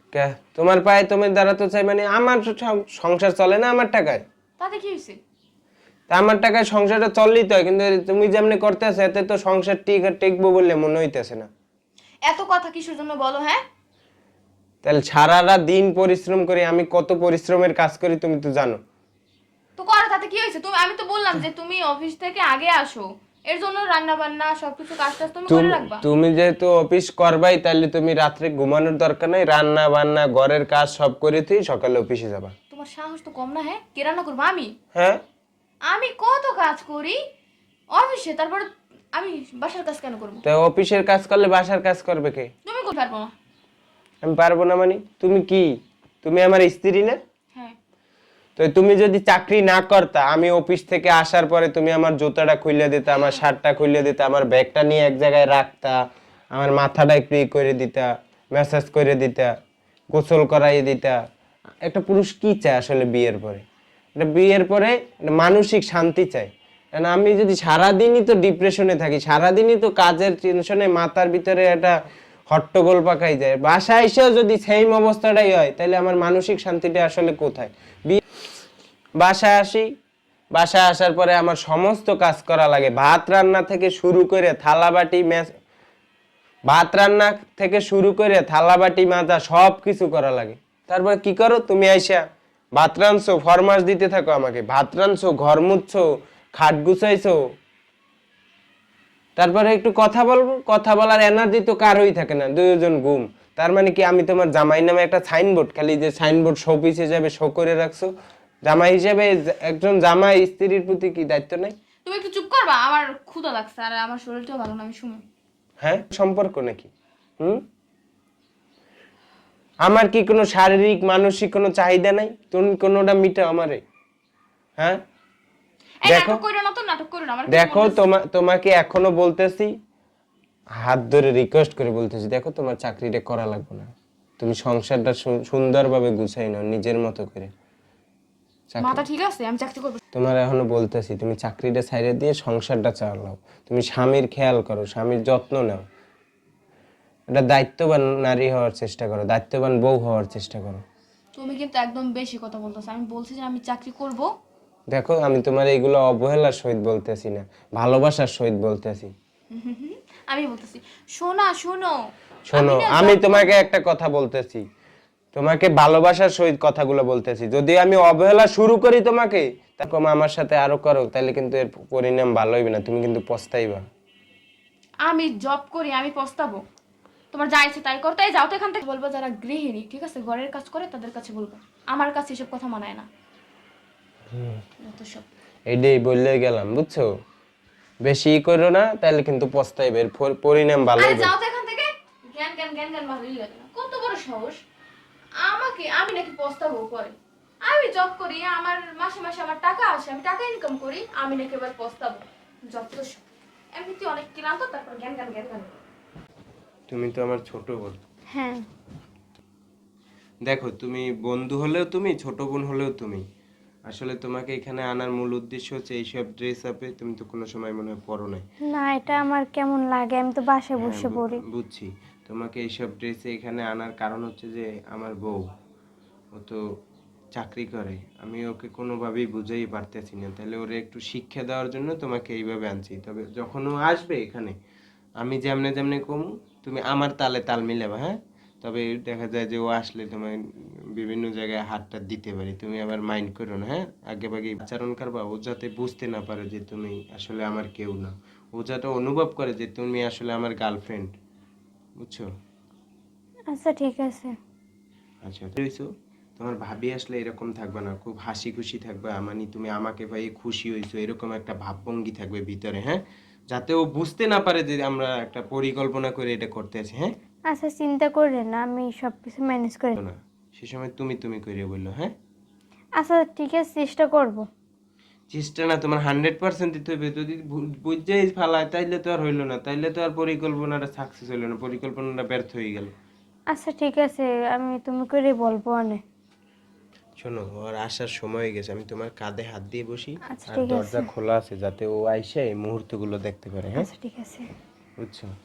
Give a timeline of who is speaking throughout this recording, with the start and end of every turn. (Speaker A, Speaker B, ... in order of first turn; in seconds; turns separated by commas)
Speaker A: 0.1-4.2, Speaker B: 4.6-5.2, Speaker A: 6.1-11.5, Speaker B: 12.2-13.6, Speaker A: 14.8-18.8, Speaker B: 19.8-26.0, Speaker A: 25.5-32.5, Speaker B: 32.7-34.7, Speaker A: 34.9-35.2, Speaker B: 35.8-37.2, Speaker B: 37.9-40.4, Speaker A: 40.4-42.5, Speaker B: 42.6-43.3, Speaker A: 44.2-47.2, Speaker A: 48.6-56.0, Speaker A: 56.5-59.5, Speaker A: 60.1-61.2, Speaker A: 61.9-63.6, Speaker A: 64.2-72.0, Speaker A: 72.5-78.2, Speaker A: 79.2-79.9, Speaker A: 80.5-85.5, Speaker A: 86.7-92.2, Speaker A: 92.8-97.4, Speaker A: 99.4-108.1, Speaker A: 108.7-111.7, Speaker B: 112.0-115.2, Speaker A: 115.8-116.9, Speaker A: 119.8-123.8, Speaker B: 126.0-128.0, Speaker A: 126.0-126.4, Speaker A: 127.5-129.7, Speaker A: 130.8-137.5, Speaker A: 138.7-139.0, Speaker B: 138.8-140.0, Speaker A: 140.1-145.8, Speaker A: 147.3-150.8, Speaker B: 151.3-154.3, Speaker A: 154.9-159.1, Speaker B: 159.5-161.9, Speaker A: 162.5-164.6, Speaker B: 162.5-163.7, Speaker A: 165.3-173.8, Speaker B: 175.0-176.6, Speaker B: 177.3-183.1, Speaker A: 184.3-184.6, Speaker B: 184.8-185.2, Speaker A: 185.7-187.1, Speaker A: 188.0-191.3, Speaker B: 191.0-194.6, Speaker B: 195.4-203.2, Speaker B: 203.8-205.7, Speaker A: 206.9-208.0, Speaker C: 208.3-208.6, Speaker A: 210.4-213.2, Speaker A: 213.9-218.4, Speaker C: 218.6-221.4, Speaker A: 220.8-225.4, Speaker A: 226.3-226.6, Speaker A: 227.3-234.6, Speaker A: 235.2-240.4, Speaker A: 240.9-251.1, Speaker A: 252.0-252.3, Speaker C: 253.5-254.3, Speaker A: 255.2-267.1, Speaker C: 267.5-270.0, Speaker A: 269.9-272.1, Speaker C: 273.0-274.5, Speaker A: 275.3-282.9, Speaker C: 283.5-286.0, Speaker A: 287.2-293.9, Speaker C: 290.2-291.1, Speaker C: 293.8-294.5, Speaker A: 295.0-295.3